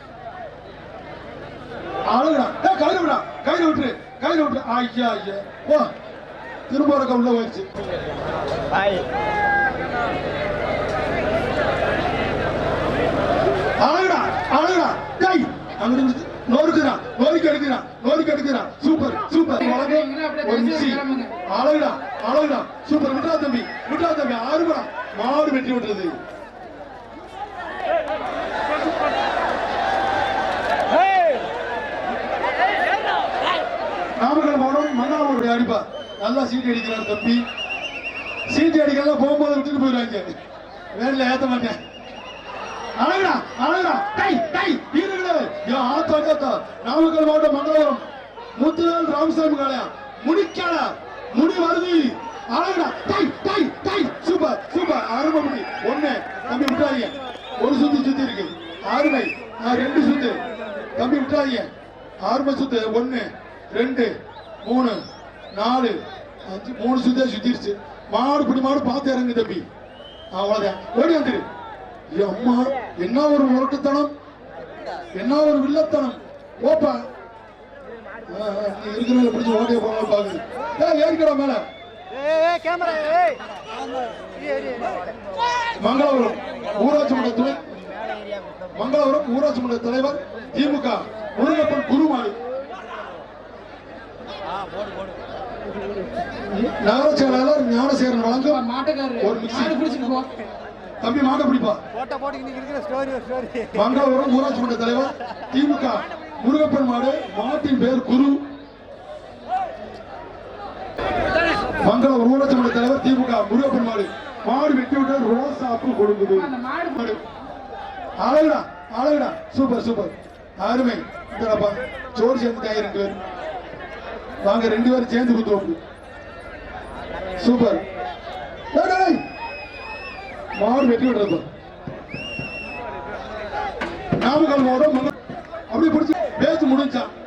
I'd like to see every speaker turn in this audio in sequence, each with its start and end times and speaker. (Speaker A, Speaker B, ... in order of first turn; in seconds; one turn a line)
Speaker A: 2.1-5.9
Speaker A: 6.7-7.7
Speaker A: 13.8-26.1
Speaker B: 19.7-21.3
Speaker A: 34.2-37.4
Speaker A: 38.5-40.3
Speaker A: 40.9-41.8
Speaker A: 43.0-48.0
Speaker A: 48.5-60.4
Speaker A: 60.9-61.7
Speaker A: 62.2-65.0
Speaker A: 65.5-69.7
Speaker A: 70.3-71.5
Speaker A: 72.1-74.1
Speaker A: 75.1-77.0
Speaker A: 78.3-81.7
Speaker A: 85.8-87.6
Speaker A: 88.7-92.3
Speaker A: 96.5-99.9
Speaker B: 98.5-100.5
Speaker A: 101.0-101.8
Speaker A: 103.7-108.4
Speaker A: 111.8-117.2
Speaker B: 116.4-117.0
Speaker A: 118.2-123.2
Speaker A: 124.4-125.8
Speaker A: 127.4-127.8
Speaker A: 128.7-129.2
Speaker A: 130.6-131.4
Speaker A: 134.2-135.1
Speaker A: 135.7-137.1